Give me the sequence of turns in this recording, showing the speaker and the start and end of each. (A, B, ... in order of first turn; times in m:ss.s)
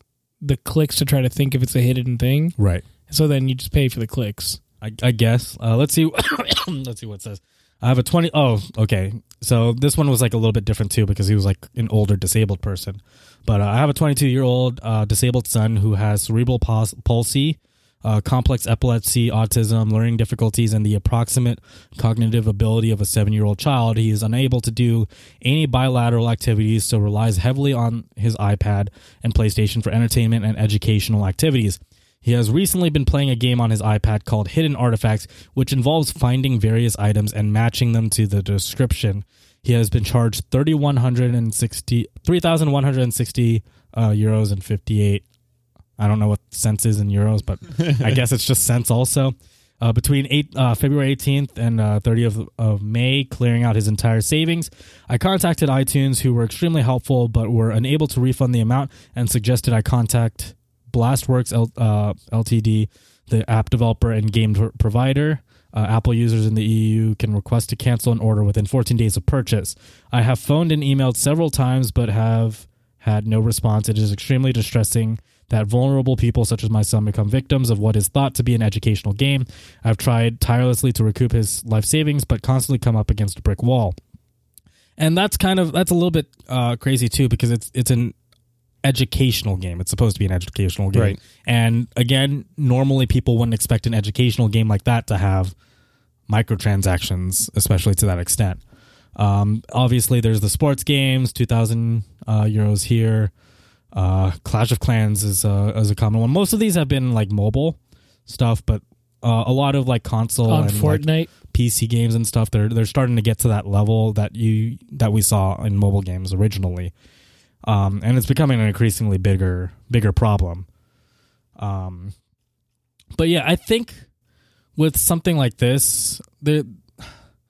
0:00.4-0:02.6 A
0:02.6-0:02.8 B
0:03.1-0:04.6 A
0:04.8-0:45.2 B
0:46.0-1:24.0 B
1:25.0-1:28.1 B
1:28.8-1:35.6 B
1:36.3-1:38.6 B
1:39.2-1:43.3 B
1:43.9-1:56.9 B
1:50.5-1:51.3 A
1:57.7-2:00.7 B
2:01.6-2:02.1 B
2:03.2-2:04.0 B
2:04.8-2:07.1 B